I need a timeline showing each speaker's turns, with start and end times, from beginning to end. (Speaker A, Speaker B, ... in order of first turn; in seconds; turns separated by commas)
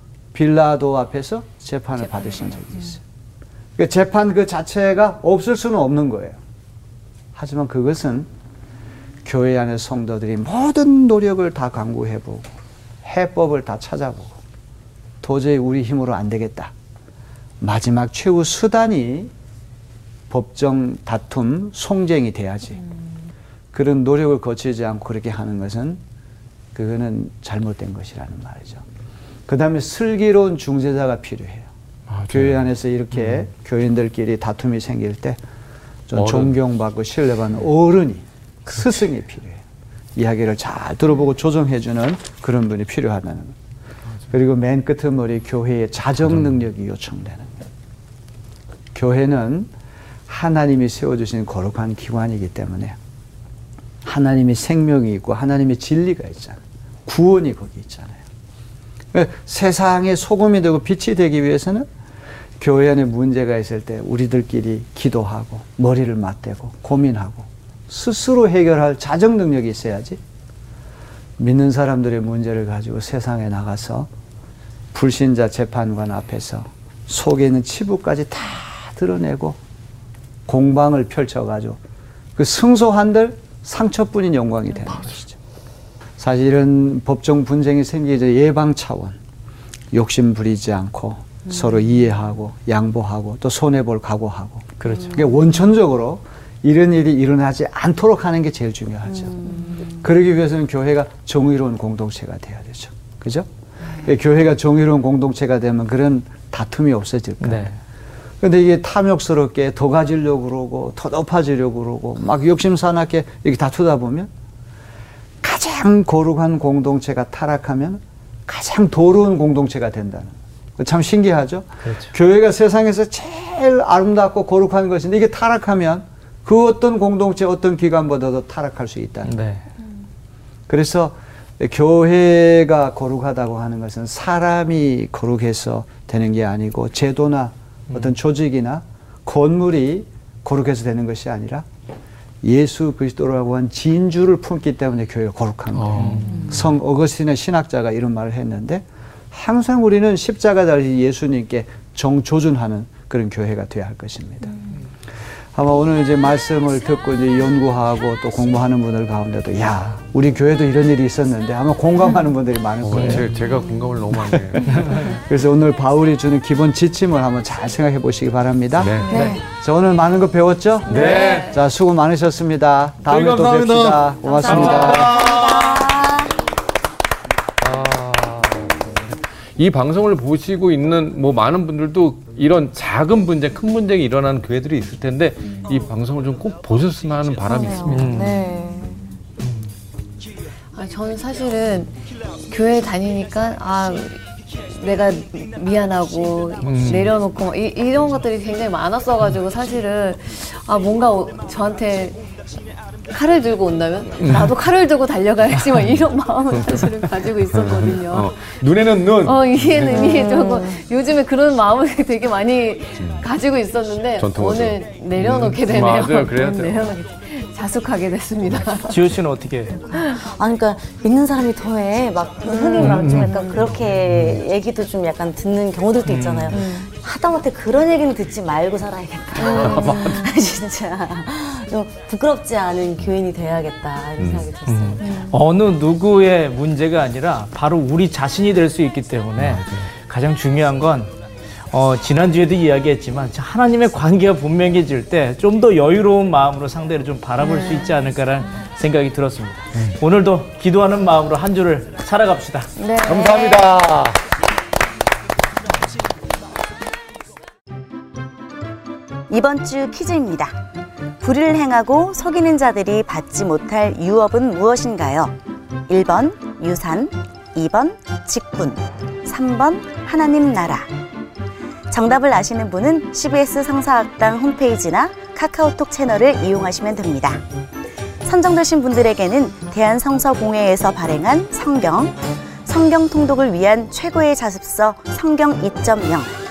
Speaker A: 0.3-3.0, Speaker A: 3.8-6.4, Speaker A: 7.3-8.3, Speaker A: 9.2-12.4, Speaker A: 13.0-14.3, Speaker A: 15.2-16.7, Speaker A: 17.6-19.3, Speaker A: 20.3-22.8, Speaker A: 23.7-26.0, Speaker A: 26.7-28.8, Speaker A: 29.5-31.7, Speaker B: 32.1-32.6, Speaker A: 32.3-35.4, Speaker A: 36.1-39.6, Speaker B: 36.1-36.5, Speaker A: 40.1-43.5, Speaker A: 44.3-47.5, Speaker A: 48.9-49.7, Speaker A: 50.3-53.0, Speaker A: 54.0-58.2, Speaker A: 59.1-61.9, Speaker A: 62.6-70.2, Speaker A: 71.4-74.1, Speaker A: 74.9-79.6, Speaker A: 80.5-81.8, Speaker A: 82.3-85.4, Speaker A: 86.2-89.2, Speaker A: 89.9-103.5, Speaker C: 94.8-95.1, Speaker D: 99.3-99.9, Speaker A: 104.0-107.7, Speaker C: 107.4-107.8, Speaker A: 108.4-114.3, Speaker A: 115.4-129.4, Speaker C: 121.8-122.1, Speaker C: 129.2-129.6, Speaker A: 130.7-141.7, Speaker A: 142.4-154.6, Speaker B: 145.7-146.6, Speaker C: 146.0-146.4, Speaker D: 146.3-146.6, Speaker A: 155.5-163.3, Speaker B: 162.8-165.1, Speaker C: 162.9-163.3, Speaker A: 164.3-175.2, Speaker B: 168.8-169.4, Speaker D: 169.1-169.4, Speaker B: 170.9-171.6, Speaker E: 170.9-171.4, Speaker B: 173.0-175.9, Speaker C: 174.4-175.0, Speaker D: 174.7-176.3, Speaker B: 177.6-188.3, Speaker D: 187.5-189.1, Speaker C: 187.9-188.4, Speaker B: 189.4-189.7, Speaker E: 190.7-202.2, Speaker B: 196.6-197.1, Speaker E: 203.1-208.3, Speaker B: 204.2-204.5, Speaker B: 207.5-210.2, Speaker E: 209.2-219.0, Speaker D: 209.9-210.7, Speaker B: 213.0-213.2, Speaker B: 214.2-217.0, Speaker C: 218.9-219.8, Speaker E: 219.9-220.2, Speaker D: 220.2-235.3, Speaker E: 222.4-223.6, Speaker B: 222.8-224.4, Speaker C: 222.8-223.1, Speaker C: 226.0-226.5, Speaker E: 226.5-226.9, Speaker E: 229.3-230.3, Speaker B: 229.4-230.2, Speaker B: 234.2-234.5, Speaker C: 234.7-241.1, Speaker E: 235.0-235.3, Speaker B: 239.4-239.8, Speaker C: 241.7-252.7, Speaker E: 247.4-247.9, Speaker E: 252.8-253.7, Speaker B: 253.0-254.2, Speaker D: 259.3-260.5, Speaker D: 261.2-265.3, Speaker D: 265.9-270.9, Speaker D: 271.9-277.4, Speaker D: 278.2-286.4